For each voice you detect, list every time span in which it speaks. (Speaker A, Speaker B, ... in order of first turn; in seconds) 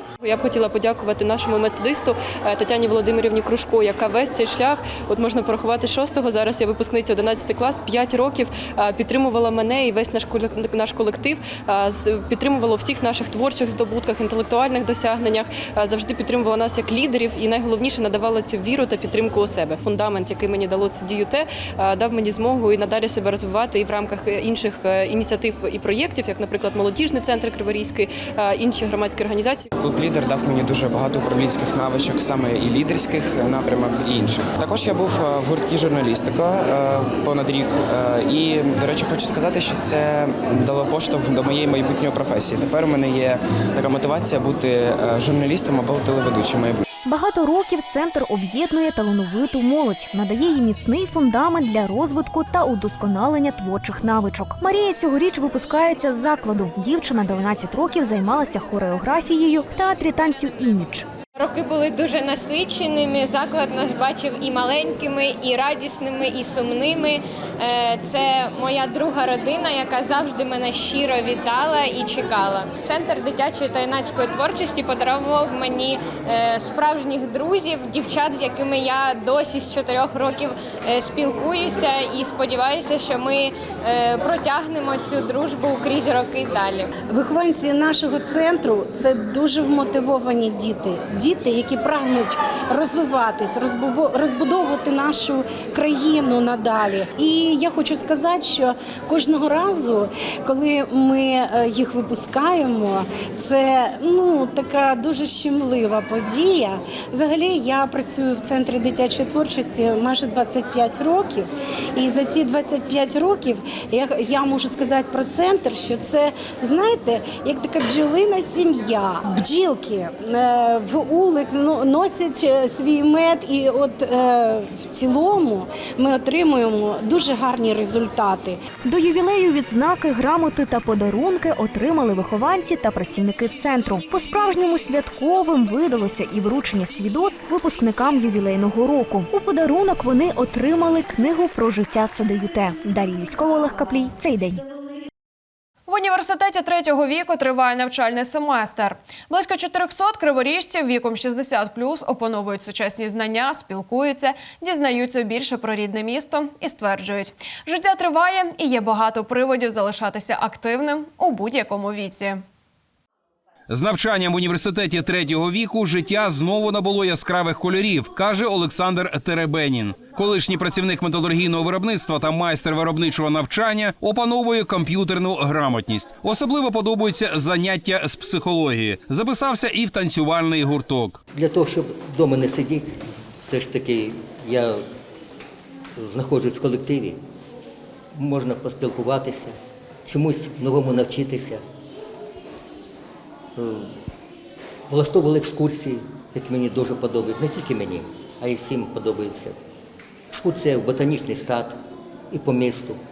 Speaker A: 0.2-29.7
Speaker B: 29.8-46.8
Speaker C: 47.1-61.1, 128.8-144.6
Speaker D: 61.4-86.9
Speaker E: 87.0-128.6
Speaker F: 145.9-162.4
Speaker G: 163.7-181.2
Speaker H: 181.3-184.8, 186.0-187.2, 188.1-191.6, 193.6-193.9, 194.9-199.6, 200.3-201.8, 202.3-203.0